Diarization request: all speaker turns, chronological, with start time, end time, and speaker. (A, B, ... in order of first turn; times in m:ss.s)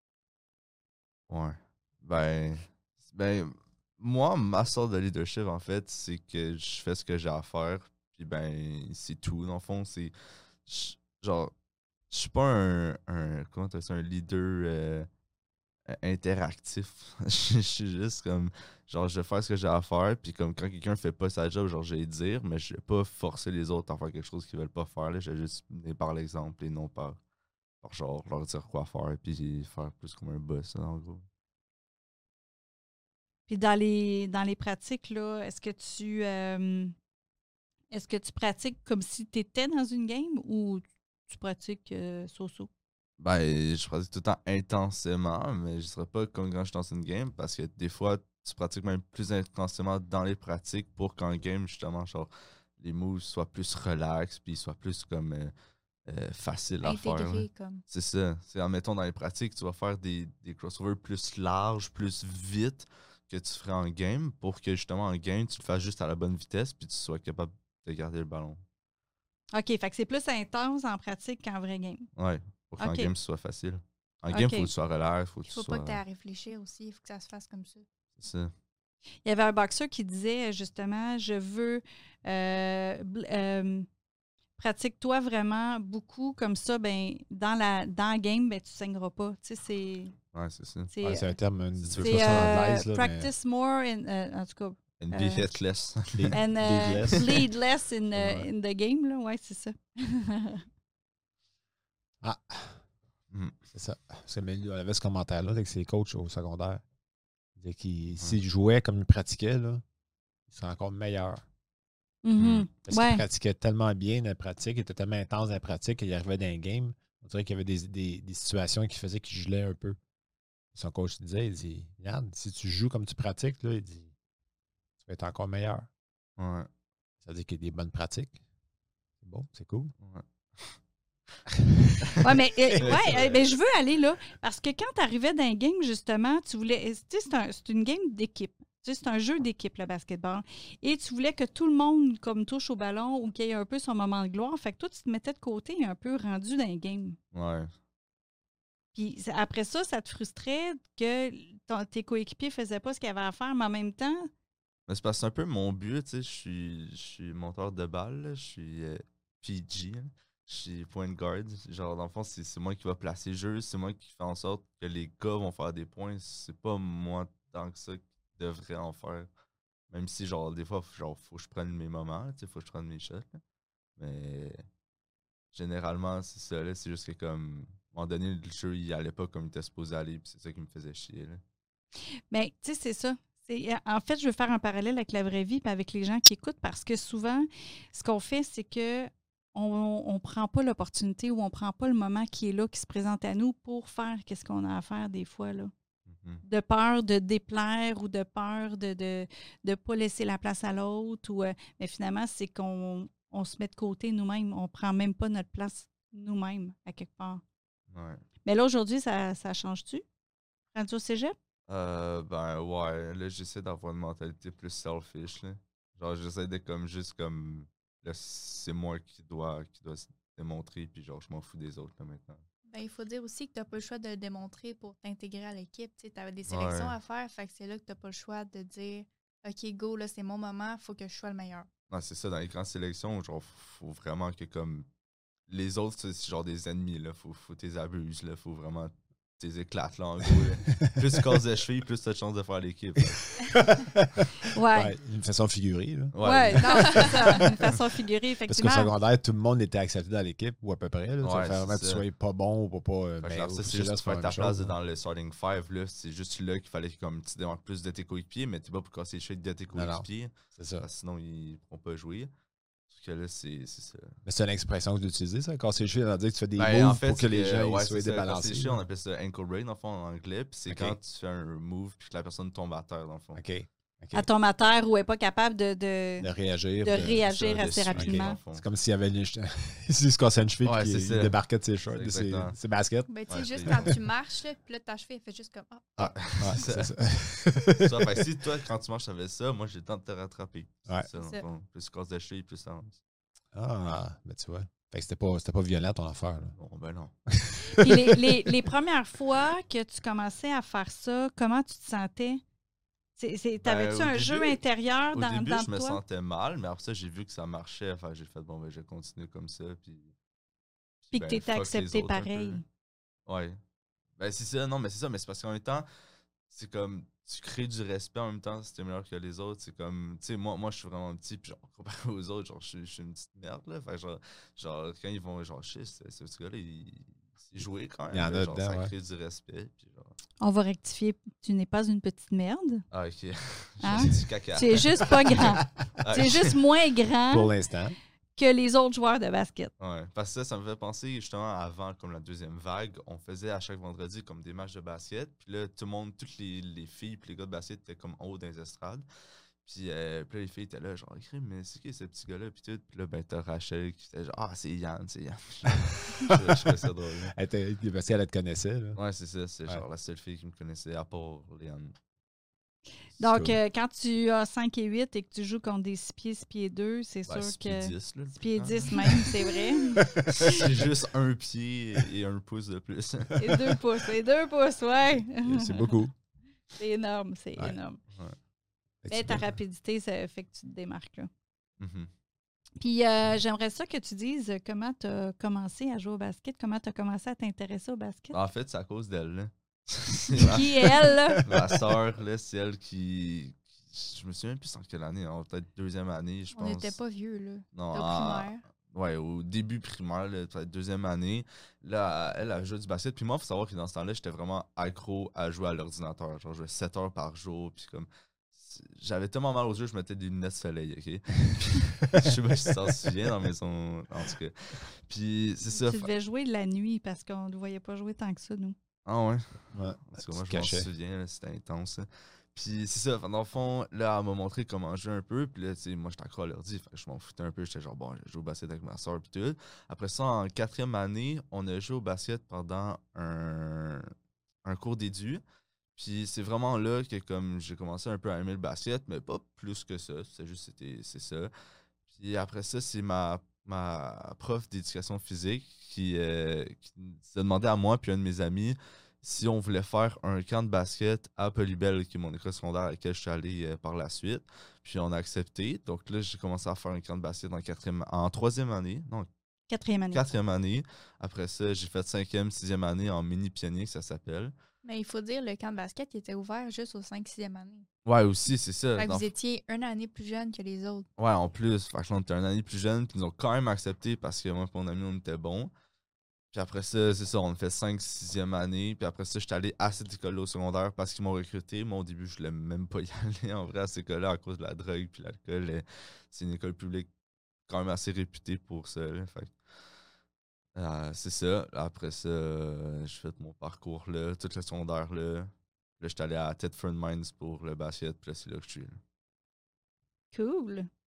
0:01.3-0:10.1 A
0:10.6-0:11.5 A
0:12.1-0:15.1 A
0:15.9-0:27.2 A
0:27.8-0:31.2 A
0:33.5-0:37.0 B
0:37.9-0:42.7 B
0:43.2-0:55.5 A
0:56.1-1:08.6 A
0:56.8-0:57.8 C
1:09.5-1:12.1 B
1:12.2-1:16.0 A
1:12.8-1:13.1 B
1:14.3-1:14.7 B
1:15.5-1:17.8 C
1:18.2-1:18.5 A
1:19.2-1:23.9 B
1:24.6-1:30.2 B
1:30.3-1:30.9 A
1:30.9-1:31.3 B
1:31.0-1:33.3 D
1:31.8-1:32.7 A
1:32.0-1:35.5 B
1:35.0-1:37.3 A
1:36.1-1:37.3 D
1:36.3-1:40.6 B
1:38.1-1:38.5 D
1:42.2-1:42.8 D
1:43.3-1:43.6 A
1:43.7-1:46.8 D
1:47.6-1:49.8 D
1:50.5-1:51.4 D
1:52.2-1:53.2 B
1:52.4-1:52.7 A
1:52.8-2:00.0 D
2:00.7-2:04.1 D
2:05.0-2:05.9 D
2:06.4-2:06.7 A
2:07.2-2:08.4 D
2:09.2-2:09.9 D
2:10.0-2:10.8 A
2:11.5-2:11.9 D
2:12.0-2:13.5 A
2:12.2-2:27.2 B
2:27.3-2:27.7 A
2:28.9-2:34.3 B
2:34.9-2:49.3 A
2:49.9-2:53.4 A
2:54.0-2:54.6 A
2:55.5-3:01.4 A
3:02.3-3:15.7 B
3:16.1-3:16.4 A
3:16.4-3:27.4 B
3:27.9-3:28.2 A
3:28.4-3:30.0 B
3:30.7-3:31.4 B
3:31.7-3:42.4 A
3:42.7-3:51.7 C
3:46.5-3:46.9 A
3:51.9-3:54.9 A
3:55.5-4:03.4 A
4:00.3-4:01.4 D
4:03.1-4:07.5 D
4:04.5-4:04.9 B
4:06.1-4:07.1 A
4:06.2-4:08.9 B
4:06.6-4:07.4 C
4:08.5-4:14.7 D
4:11.2-4:12.0 A
4:13.2-4:22.3 A
4:19.7-4:20.9 D
4:22.9-4:24.2 A
4:24.2-4:28.8 D
4:26.6-4:33.4 A
4:30.7-4:31.0 D
4:33.4-4:34.3 D
4:34.1-4:36.3 B
4:36.2-4:43.1 D
4:36.8-4:38.4 B
4:36.9-4:38.6 A
4:40.6-4:42.6 A
4:43.1-4:46.0 C
4:43.3-4:44.0 A
4:43.6-4:43.9 D
4:46.0-4:46.9 A
4:46.0-4:48.2 D
4:47.5-4:53.0 A
4:51.2-4:51.4 C
4:53.5-4:56.6 D
4:56.6-4:57.1 A
4:57.4-4:58.6 D
4:57.7-5:02.4 B
5:03.2-5:06.0 B
5:03.6-5:04.6 A
5:05.1-5:10.1 A
5:11.1-5:12.6 A
5:11.1-5:12.6 B
5:13.3-5:13.6 A
5:14.2-5:15.9 A
5:16.5-5:30.2 A
5:28.1-5:28.9 D
5:30.4-5:32.8 B
5:32.9-5:36.6 A
5:33.8-5:37.5 B
5:37.3-5:38.0 D
5:38.4-5:39.7 B
5:39.8-5:49.1 A
5:49.6-5:57.3 A
5:56.2-5:59.0 D
5:59.0-6:02.0 A
6:03.2-6:10.6 B
6:03.2-6:03.6 D
6:07.3-6:09.0 A
6:10.0-6:10.6 D
6:10.3-6:13.4 A
6:13.4-6:16.0 B
6:15.4-6:16.1 D
6:16.8-6:18.0 B
6:19.0-6:19.6 D
6:19.1-6:21.3 B
6:21.8-6:22.1 A
6:22.8-6:28.4 B
6:28.3-6:37.0 A
6:30.4-6:31.5 B
6:36.5-6:38.6 C
6:37.7-6:56.1 A
6:55.8-6:58.8 B
6:59.1-7:14.1 A
6:59.7-7:00.9 D
7:14.6-7:15.4 A
7:16.0-7:21.5 A
7:22.1-7:39.3 A
7:39.7-7:40.3 B
7:40.1-7:44.5 A
7:44.8-7:47.9 C
7:48.1-7:49.3 A
7:49.0-7:51.1 C
7:51.2-7:55.7 A
7:56.5-8:07.1 A
8:07.7-8:09.6 A
8:10.8-8:19.0 A
8:20.3-8:20.9 B